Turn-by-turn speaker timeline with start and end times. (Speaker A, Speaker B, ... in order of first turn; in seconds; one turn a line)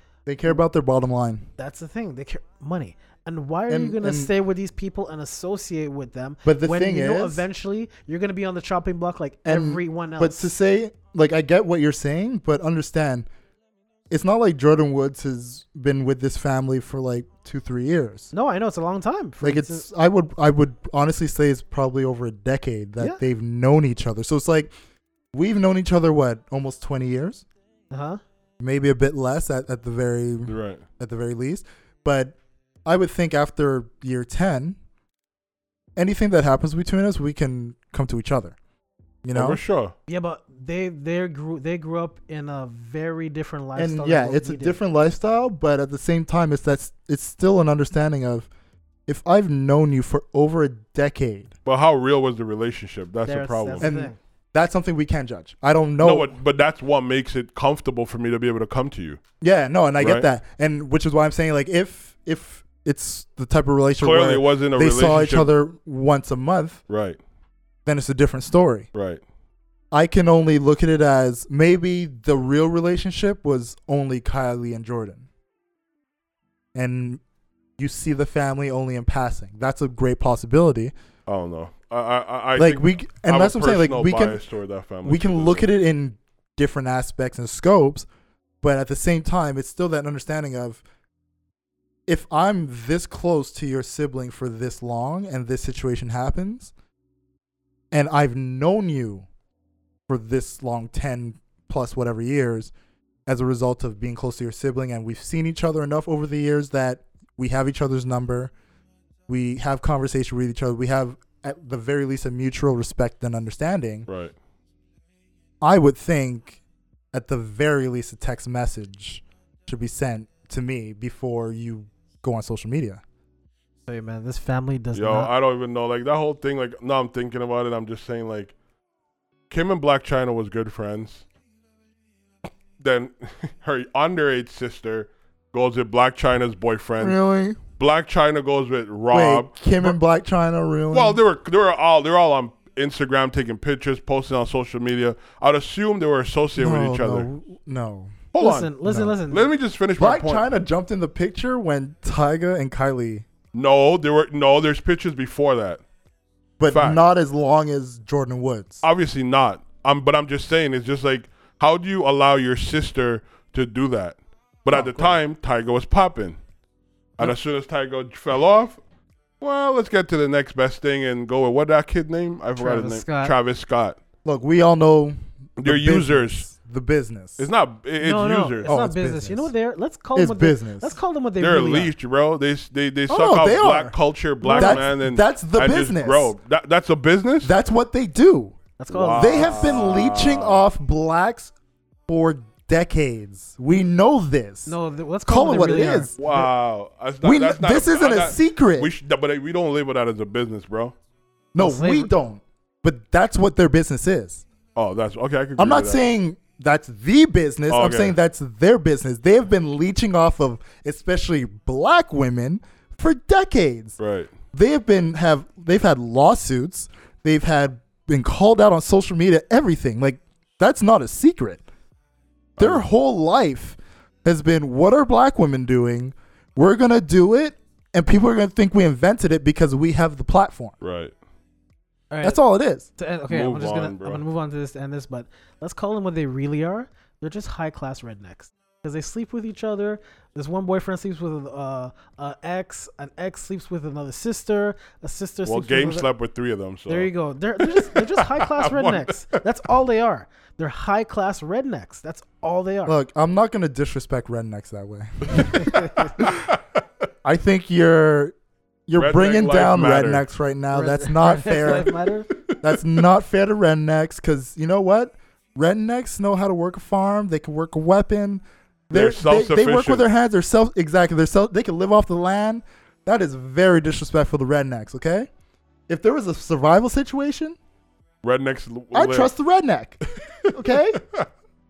Speaker A: 0.2-1.5
Speaker B: 1.6-10.5
Speaker A: 3.7-4.3
Speaker A: 6.4-7.4
Speaker A: 9.4-13.3
Speaker A: 14.1-18.3
Speaker B: 18.3-19.9
Speaker A: 19.4-24.7
Speaker A: 25.3-27.4
Speaker B: 27.9-28.2
Speaker A: 28.6-34.8
Speaker C: 30.5-30.8
Speaker A: 36.0-38.5
Speaker A: 39.2-39.6
Speaker C: 39.3-39.9
Speaker B: 40.1-44.8
Speaker A: 43.8-48.5
Speaker A: 49.1-51.5
Speaker C: 51.6-53.9
Speaker B: 53.2-54.2
Speaker A: 53.8-56.3
Speaker C: 56.0-59.2
Speaker A: 59.4-66.8
Speaker C: 60.0-60.3
Speaker C: 64.0-65.5
Speaker C: 66.9-67.2
Speaker A: 67.8-68.9
Speaker C: 68.9-69.2
Speaker A: 69.9-75.3
Speaker A: 76.7-77.2
Speaker A: 77.8-80.9
Speaker C: 81.3-85.7
Speaker A: 82.5-84.4
Speaker A: 85.0-88.1
Speaker A: 88.6-90.8
Speaker A: 92.1-96.7
Speaker A: 97.9-99.3
Speaker A: 100.1-102.7
Speaker A: 103.3-108.5
Speaker A: 109.3-114.1
Speaker C: 114.1-114.3
Speaker A: 115.6-116.6
Speaker A: 117.1-123.0
Speaker B: 123.9-125.3
Speaker C: 124.9-128.5
Speaker C: 129.5-131.2
Speaker C: 132.8-137.2
Speaker A: 137.0-137.6
Speaker C: 137.8-139.9
Speaker A: 139.1-141.2
Speaker C: 140.9-147.3
Speaker A: 146.6-148.2
Speaker C: 148.3-148.7
Speaker B: 148.4-149.5
Speaker A: 148.8-149.1
Speaker C: 149.3-150.5
Speaker A: 150.0-153.2
Speaker C: 153.5-155.8
Speaker A: 156.6-158.8
Speaker C: 156.7-157.0
Speaker C: 158.8-166.4
Speaker A: 164.7-165.2
Speaker C: 167.2-168.8
Speaker C: 169.4-174.0
Speaker B: 172.6-173.3
Speaker A: 174.2-177.5
Speaker C: 175.6-176.4
Speaker C: 177.4-178.7
Speaker B: 178.0-181.9
Speaker A: 178.6-179.5
Speaker A: 180.1-181.0
Speaker C: 181.4-187.5
Speaker A: 183.1-186.3
Speaker B: 184.4-184.8
Speaker A: 187.4-188.6
Speaker B: 188.8-189.8
Speaker C: 188.9-190.6
Speaker A: 189.1-191.5
Speaker A: 192.1-194.7
Speaker B: 194.7-196.1
Speaker A: 195.2-196.5
Speaker C: 196.2-200.9
Speaker A: 197.2-198.9
Speaker A: 201.5-204.4
Speaker B: 201.6-202.1
Speaker C: 204.7-206.0
Speaker A: 205.6-213.9
Speaker C: 207.7-208.2
Speaker C: 214.0-214.3
Speaker A: 214.5-221.6
Speaker C: 222.6-222.8
Speaker A: 222.6-230.7
Speaker C: 230.8-231.1
Speaker B: 232.1-232.4
Speaker A: 232.2-232.9
Speaker B: 233.0-246.1
Speaker C: 233.3-234.2
Speaker C: 245.4-249.4
Speaker B: 246.9-253.0
Speaker A: 252.8-256.3
Speaker C: 255.4-256.6
Speaker B: 255.6-256.1
Speaker A: 257.2-258.3
Speaker A: 258.9-261.9
Speaker C: 258.9-260.2
Speaker B: 260.7-262.3
Speaker A: 262.6-275.3
Speaker C: 268.9-270.0
Speaker A: 275.9-277.6
Speaker C: 278.2-279.3
Speaker A: 278.9-281.0
Speaker C: 280.5-281.2